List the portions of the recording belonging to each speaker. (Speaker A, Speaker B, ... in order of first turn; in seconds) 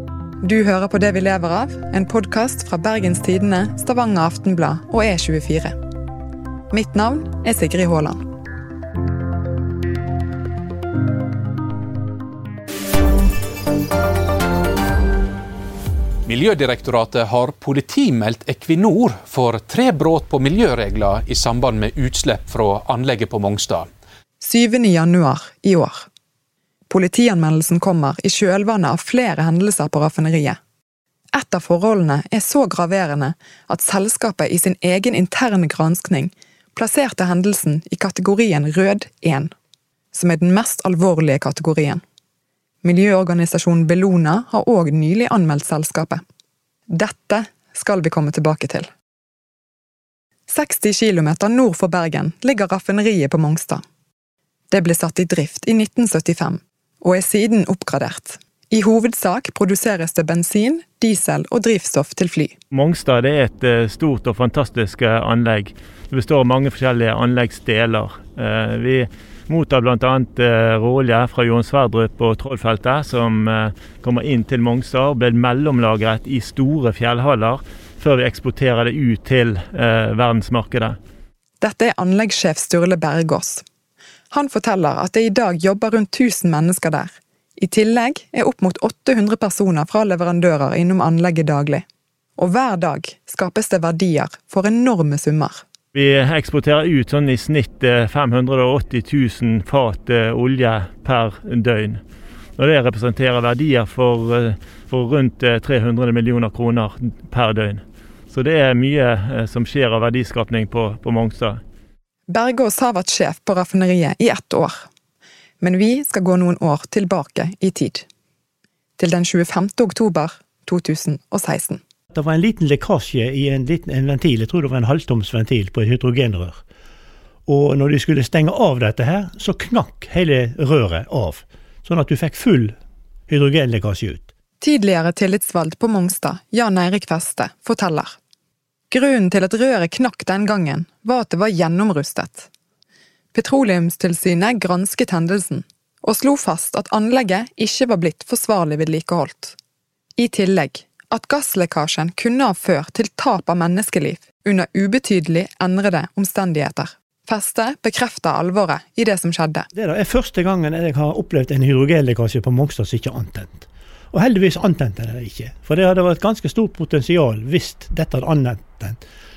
Speaker A: 0.4-5.8, 6.7-8.2, 24.4-26.1, 26.9-30.6, 31.3-39.5, 40.1-42.0, 42.8-46.2, 46.9-48.9, 50.5-53.8, 54.7-62.6, 81.6-83.6, 84.3-91.8, 92.4-95.6, 112.3-114.9, 115.6-118.1, 119.0-121.8, 134.6-138.2, 138.9-142.5, 143.3-149.6, 150.2-159.7
Speaker B: 16.3-23.9
Speaker C: 62.7-81.0, 95.9-102.0, 102.6-111.6
Speaker D: 122.2-126.6, 127.5-132.7, 133.3-134.3, 159.8-169.0